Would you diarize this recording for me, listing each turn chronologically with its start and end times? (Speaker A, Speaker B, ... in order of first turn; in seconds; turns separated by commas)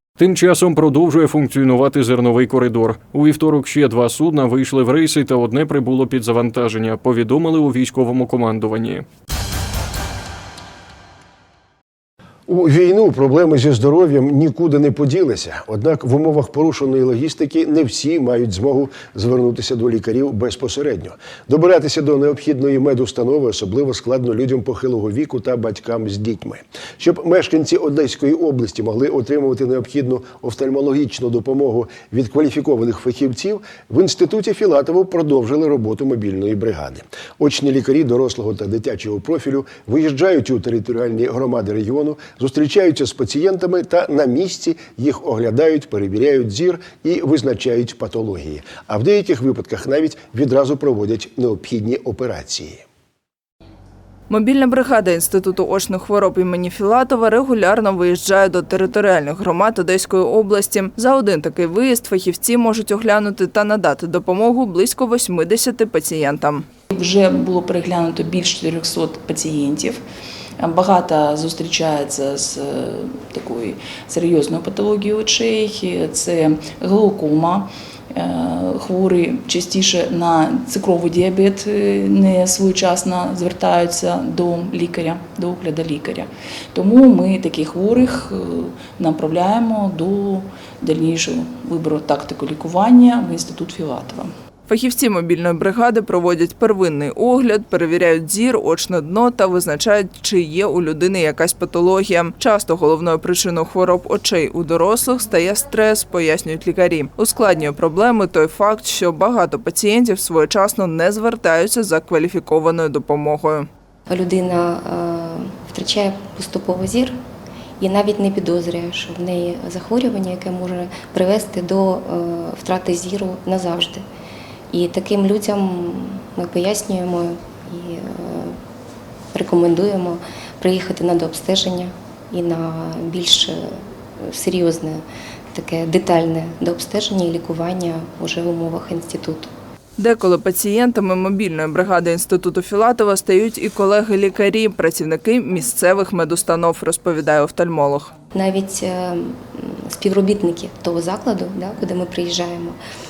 Speaker A: 0.2-9.1, Speaker B: 12.5-52.8, Speaker C: 54.3-66.7, Speaker D: 66.9-70.0, Speaker D: 70.6-94.3, Speaker C: 94.7-113.7, Speaker E: 114.1-117.2, Speaker E: 117.8-124.0, Speaker E: 124.7-128.6, Speaker E: 129.3-139.5, Speaker C: 140.0-148.1, Speaker E: 148.3-152.8